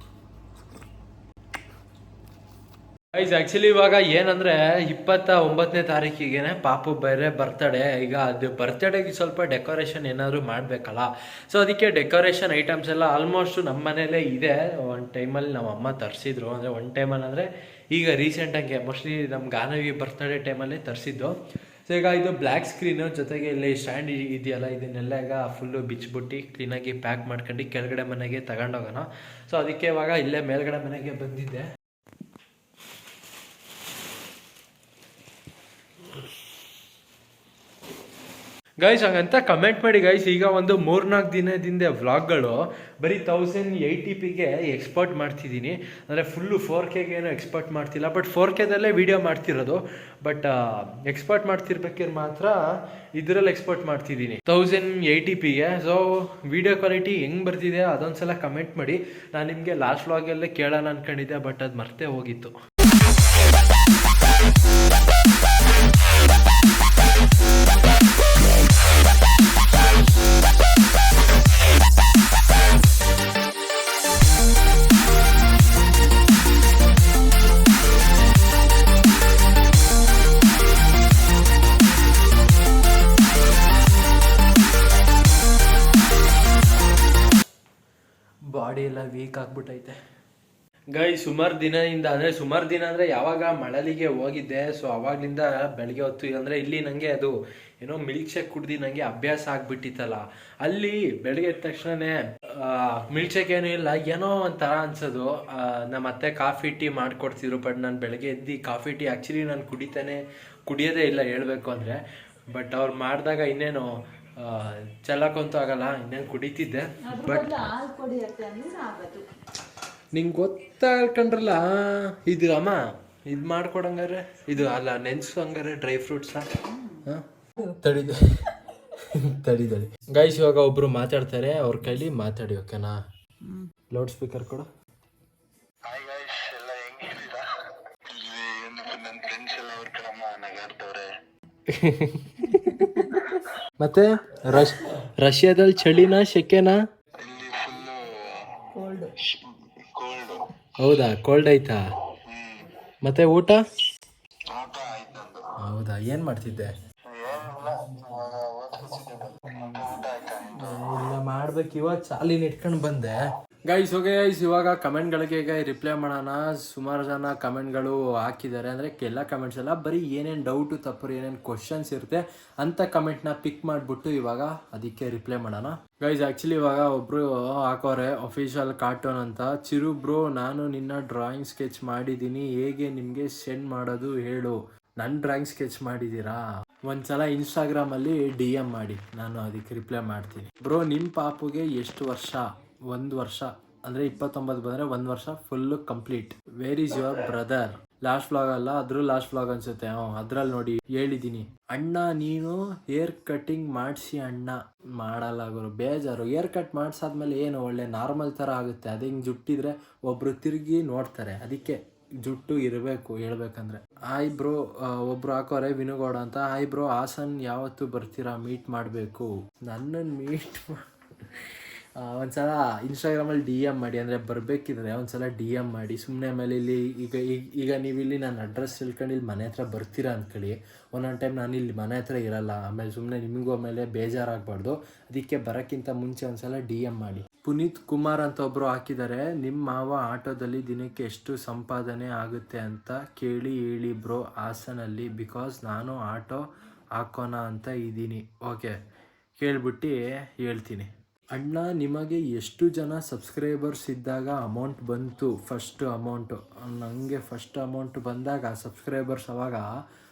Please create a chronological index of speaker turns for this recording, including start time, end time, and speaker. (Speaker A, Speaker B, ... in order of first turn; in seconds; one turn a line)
Speaker A: 3.1-31.7
Speaker A: 38.8-52.6
Speaker A: 53.1-62.5
Speaker A: 88.5-90.0
Speaker A: 90.9-117.7
Speaker B: 117.0-119.3
Speaker A: 120.1-126.5
Speaker A: 127.0-133.0
Speaker A: 133.9-134.7
Speaker C: 135.9-137.4
Speaker C: 138.1-141.1
Speaker A: 141.7-146.8
Speaker B: 142.8-143.3
Speaker C: 147.2-148.4
Speaker B: 148.7-149.1
Speaker C: 150.0-150.4
Speaker A: 150.8-151.8
Speaker A: 153.0-153.6
Speaker C: 154.5-155.4
Speaker A: 155.6-156.7
Speaker C: 157.1-159.2
Speaker A: 157.2-163.2
Speaker C: 159.8-160.1
Speaker A: 163.7-246.4
Speaker A: 247.0-248.7
Speaker A: 249.4-259.7